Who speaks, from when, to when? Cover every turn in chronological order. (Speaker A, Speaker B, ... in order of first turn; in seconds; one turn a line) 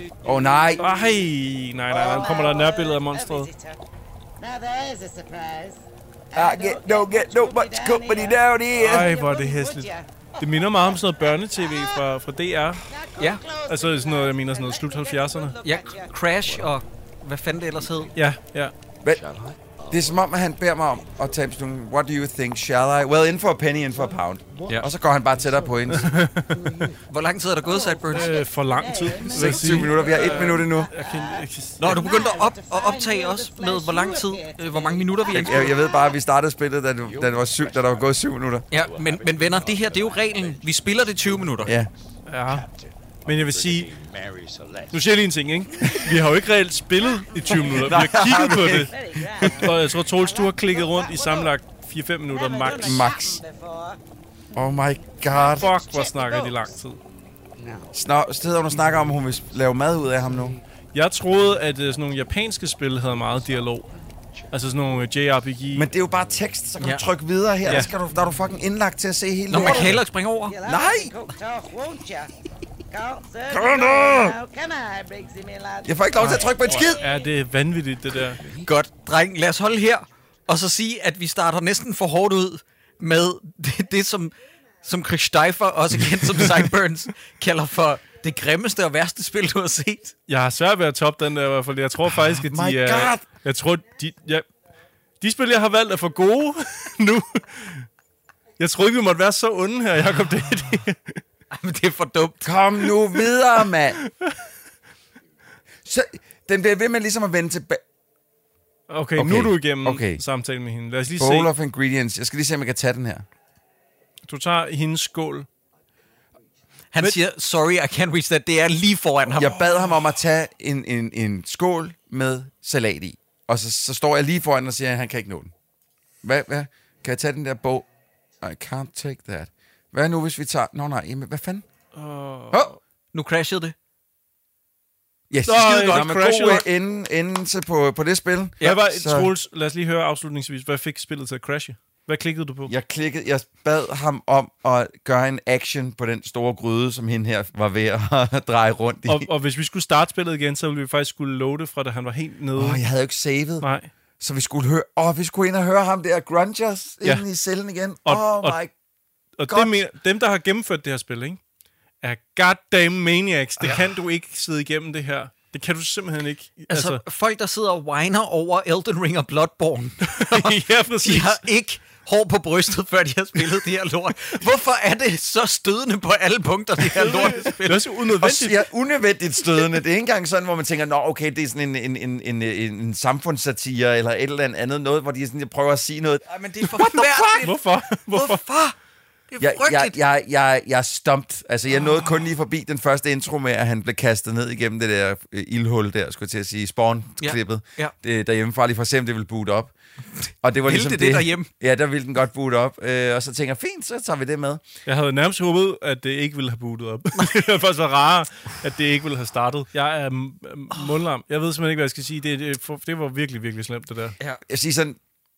Speaker A: 0.2-0.8
Speaker B: 0.8-3.5
Speaker C: 1.9-3.8
Speaker C: 4.4-10.5
Speaker A: 6.3-9.2
Speaker B: 8.8-12.8
Speaker C: 12.9-16.1
Speaker D: 13.2-13.4
Speaker B: 13.7-15.6
Speaker D: 15.6-18.1
Speaker E: 16.4-16.8
Speaker E: 17.8-18.1
Speaker B: 18.1-18.7
Speaker E: 19.1-21.5
Speaker A: 19.9-26.2
Speaker E: 23.9-27.0
Speaker B: 25.9-26.9
Speaker D: 27.1-28.4
Speaker C: 27.7-35.8
Speaker B: 28.1-32.2
Speaker E: 28.9-30.1
Speaker A: 29.2-30.9
Speaker D: 31.8-35.8
Speaker A: 35.3-38.6
Speaker E: 37.0-38.2
Speaker D: 38.7-41.8
Speaker E: 38.7-45.2
Speaker A: 41.6-41.9
Speaker B: 42.3-42.7
Speaker B: 43.2-43.9
Speaker B: 44.9-53.3
Speaker E: 45.8-46.1
Speaker A: 47.5-49.8
Speaker C: 48.7-51.5
Speaker C: 52.3-54.0
Speaker A: 52.8-53.4
Speaker A: 54.5-55.8
Speaker B: 55.4-57.0
Speaker C: 55.6-56.5
Speaker E: 57.6-58.0
Speaker A: 57.9-60.6
Speaker E: 58.6-59.4
Speaker E: 60.0-60.6
Speaker B: 60.9-63.9
Speaker E: 61.4-62.0
Speaker E: 63.0-64.5
Speaker B: 64.5-65.9
Speaker A: 65.7-70.0
Speaker D: 66.8-67.0
Speaker B: 67.6-67.9
Speaker E: 67.7-68.4
Speaker D: 69.5-70.6
Speaker B: 69.5-70.0
Speaker C: 70.4-72.3
Speaker A: 70.6-71.1
Speaker C: 72.9-76.7
Speaker A: 73.5-74.4
Speaker A: 75.8-77.0
Speaker B: 76.2-78.4
Speaker E: 78.1-78.7
Speaker D: 78.6-90.2
Speaker B: 86.2-86.7
Speaker B: 90.3-94.5
Speaker A: 92.1-93.2
Speaker B: 95.2-97.9
Speaker B: 98.6-101.2
Speaker D: 101.5-102.5
Speaker A: 102.4-104.0
Speaker A: 105.8-107.8
Speaker B: 108.9-111.5
Speaker A: 109.2-110.2
Speaker A: 111.1-113.2
Speaker B: 114.3-115.5
Speaker D: 116.9-119.5
Speaker A: 119.4-125.5
Speaker B: 119.5-119.8
Speaker A: 126.2-127.8
Speaker A: 128.4-131.6
Speaker B: 131.9-132.8
Speaker D: 133.1-133.7
Speaker A: 135.3-139.3
Speaker B: 135.4-136.6
Speaker D: 135.5-136.6
Speaker B: 138.6-142.7
Speaker A: 142.7-149.3
Speaker B: 149.1-152.8
Speaker A: 152.5-153.7
Speaker B: 153.6-153.9
Speaker A: 154.2-158.7
Speaker B: 158.0-158.6
Speaker B: 159.4-161.4
Speaker A: 159.5-159.8
Speaker B: 162.0-167.0
Speaker D: 166.7-177.9
Speaker B: 170.0-171.4
Speaker B: 176.8-178.7
Speaker A: 178.2-187.5
Speaker D: 186.2-188.8
Speaker B: 187.4-188.4
Speaker D: 189.3-190.0
Speaker A: 189.4-199.7
Speaker D: 197.2-197.9
Speaker D: 200.3-201.5
Speaker A: 200.4-204.6
Speaker B: 204.8-214.2
Speaker D: 207.1-207.4
Speaker A: 214.5-215.0